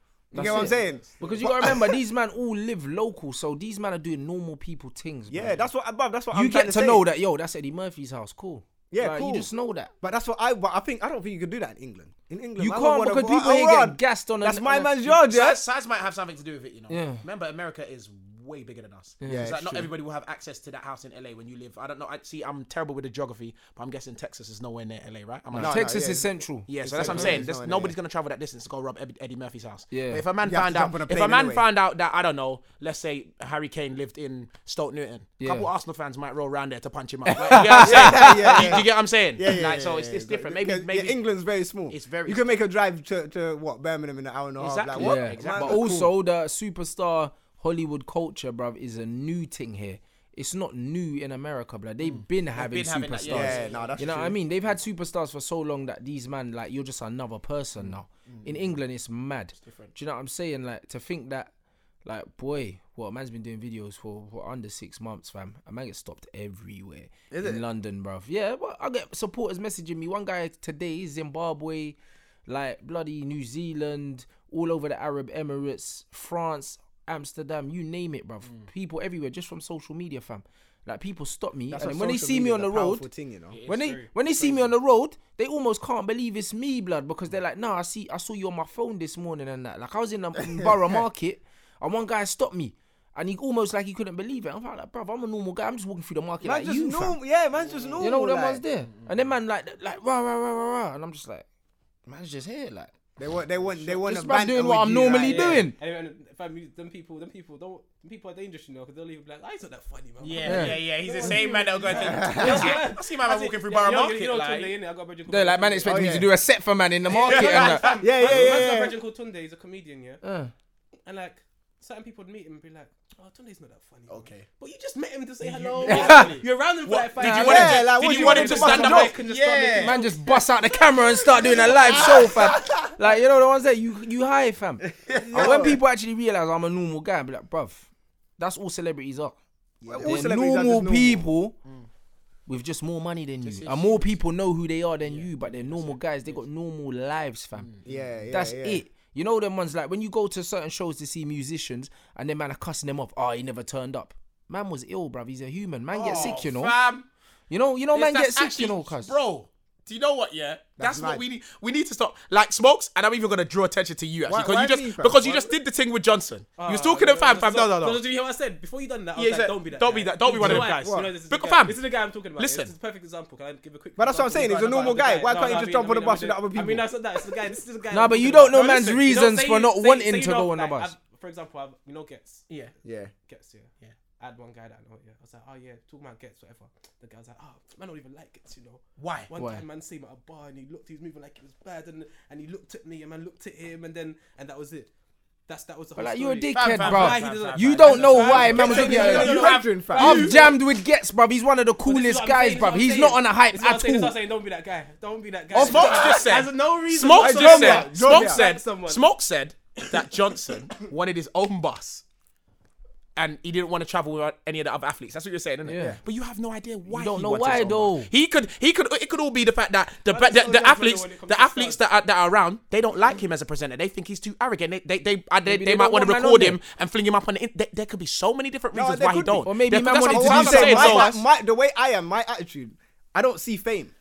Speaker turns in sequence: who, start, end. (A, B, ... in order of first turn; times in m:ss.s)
0:00.3-0:02.0 A
0:00.3-0:05.6 B
0:00.4-0:01.4 C
0:05.3-0:07.0 A
0:06.3-0:09.9 B
0:08.9-0:09.5 A
0:10.0-0:15.6 A
0:12.6-0:15.1 B
0:15.2-0:26.0 D
0:16.9-0:17.2 B
0:19.2-0:19.5 B
0:19.2-0:19.9 A
0:25.5-0:27.4 B
0:25.5-0:28.0 A
0:26.7-0:41.2 D
0:29.9-0:30.2 B
0:30.4-0:31.6 A
0:35.4-0:35.7 B
0:37.3-0:38.8 B
0:37.4-0:46.1 A
0:41.9-0:42.6 D
0:44.6-0:45.9 D
0:45.0-1:01.5 B
0:52.0-0:54.3 D
0:53.2-0:54.4 A
0:57.8-0:58.7 D
0:59.6-0:59.9 D
1:02.0-1:23.0 B
1:07.3-1:07.6 A
1:21.7-1:23.6 A
1:23.5-1:24.7 D
1:23.7-1:37.2 B
1:30.5-1:31.0 A
1:36.4-1:38.6 A
1:37.6-1:37.9 C
1:38.0-1:41.4 B
1:42.1-1:42.9 B
1:43.2-1:45.7 A
1:43.8-1:45.8 B
1:45.2-1:56.0 C
1:50.2-1:54.7 D
1:50.4-1:50.8 B
1:51.2-1:52.8 A
1:52.4-1:52.7 B
1:55.3-1:57.9 B
1:55.8-1:56.3 A
1:57.1-2:00.2 C
1:57.1-1:58.6 D
1:58.0-1:58.9 A
2:00.2-2:00.5 B
2:01.0-2:10.4 C
2:04.1-2:04.4 D
2:05.4-2:10.0 D
2:05.8-2:06.3 B
2:07.2-2:07.5 B
2:07.2-2:09.2 A
2:09.7-2:17.9 B
2:11.3-2:12.3 D
2:11.4-2:12.9 A
2:15.0-2:15.7 D
2:15.1-2:15.8 A
2:18.4-2:19.4 B
2:19.8-2:20.2 D
2:19.8-2:21.3 A
2:20.0-2:21.5 B
2:22.5-2:27.7 B
2:23.4-2:24.2 D
2:25.0-2:26.4 D
2:27.6-2:28.0 D
2:27.8-2:28.8 A
2:28.3-2:36.8 B
2:35.9-2:37.1 D
2:37.5-2:39.1 B
2:37.9-2:48.0 D
2:40.8-2:41.2 A
2:44.2-2:45.5 A
2:46.6-3:02.5 C
2:49.2-2:51.8 D
2:50.4-2:51.1 A
2:52.4-2:52.7 D
2:54.0-2:56.9 A
2:57.9-3:00.9 B
2:58.5-2:59.0 D
3:02.8-3:03.1 A
3:03.2-3:14.9 C
3:09.0-3:09.3 D
3:09.3-3:09.6 B
3:15.5-3:20.5 C
3:16.0-3:24.1 B
3:16.5-3:20.5 D
3:18.2-3:20.5 A
3:21.8-3:29.0 C
3:25.5-3:32.0 D
3:25.6-3:26.2 A
3:27.2-3:28.4 A
3:33.2-3:51.1 D
3:35.6-3:36.0 B
3:36.9-3:38.1 B
3:40.1-3:41.8 C
3:45.4-3:46.6 B
3:48.7-3:49.5 A
3:49.4-3:51.2 B
3:50.0-3:53.9 A